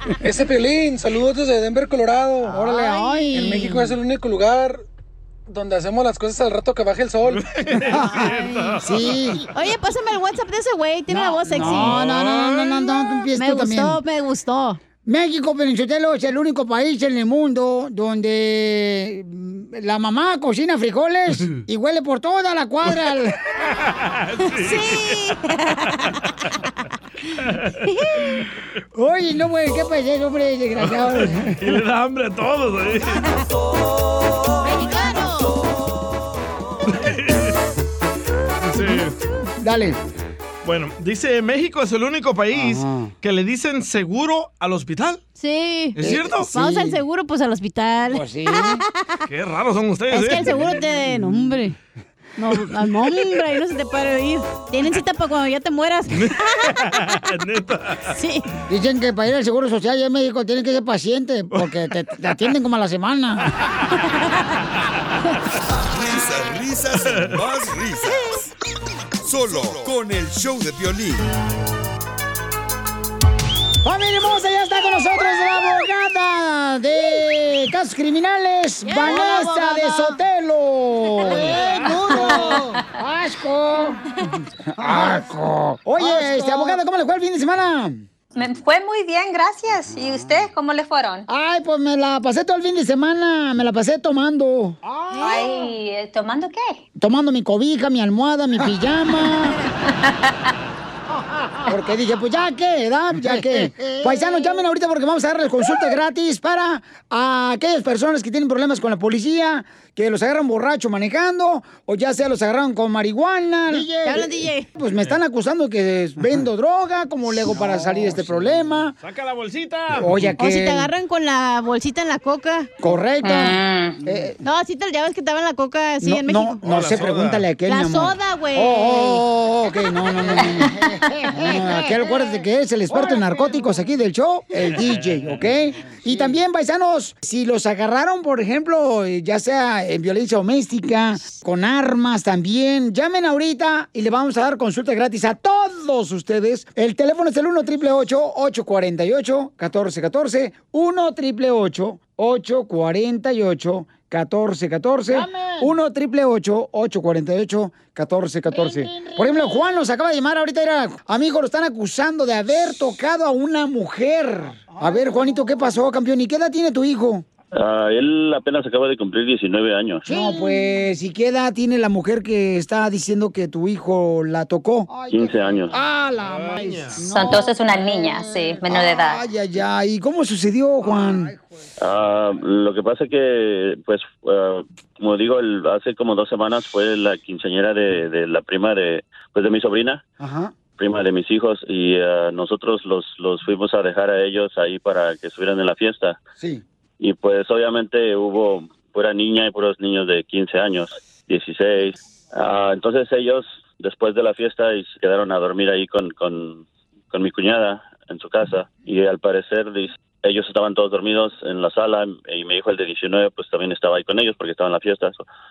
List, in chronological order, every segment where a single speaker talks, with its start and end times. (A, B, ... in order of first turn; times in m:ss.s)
0:00.2-0:02.7 A
0:02.4-0:03.9 B
0:02.6-0:03.5 C
0:03.3-0:04.8 A
0:05.5-0:07.4 A
0:07.3-0:09.4 D
0:07.9-0:09.4 B
0:08.2-0:08.8 C
0:09.5-0:12.0 C
0:11.1-0:14.0 B
0:11.6-0:12.8 D
0:13.3-0:14.8 C
0:15.0-0:23.4 B
0:23.6-0:25.2 D
0:24.5-0:26.1 C
0:27.8-0:28.4 C
0:28.9-0:31.7 B
0:30.8-0:33.2 D
0:34.6-0:35.6 C
0:36.9-0:37.6 D
0:38.6-0:39.1 D
0:39.6-0:40.0 B
0:40.6-0:45.2 D
0:42.5-0:43.1 B
0:45.4-0:49.2 C
0:46.0-0:46.5 D
0:46.0-0:47.0 B
0:48.1-0:48.8 B
0:49.3-0:50.7 D
0:50.1-0:51.7 C
0:52.4-0:56.6 C
0:56.1-0:58.0 D
0:58.1-0:58.4 C
0:58.7-1:03.5 B
1:04.0-1:04.4 C
1:05.9-1:08.5 E
1:09.2-1:11.2 E
1:13.8-1:24.0 B
1:18.8-1:20.2 C
1:21.1-1:22.6 C
1:21.3-1:22.8 F
1:24.8-1:28.0 B
1:26.0-1:26.8 F
1:28.3-1:31.2 F
1:31.3-1:34.8 B
1:35.1-1:35.7 C
1:35.2-1:36.8 F
1:37.0-1:39.6 B
1:39.8-1:40.5 F
1:41.7-1:59.0 B
1:44.2-1:44.6 C
1:53.8-1:54.7 C
1:57.8-1:58.2 A
1:59.0-2:00.3 D
1:59.9-2:00.9 B
2:00.4-2:02.7 C
2:02.8-2:04.4 B
2:03.2-2:04.0 F
2:04.4-2:06.6 C
2:06.0-2:47.2 B
2:06.6-2:07.5 D
2:07.6-2:09.2 C
2:10.1-2:12.0 F
2:47.5-2:50.2 G
2:50.0-3:01.4 B
2:55.1-2:55.8 G
2:56.2-2:57.2 D
2:57.0-2:59.3 F
3:01.8-3:10.0 G
3:10.2-3:10.5 B
3:10.8-3:16.2 G
3:16.4-3:16.6 B
3:17.0-3:35.2 G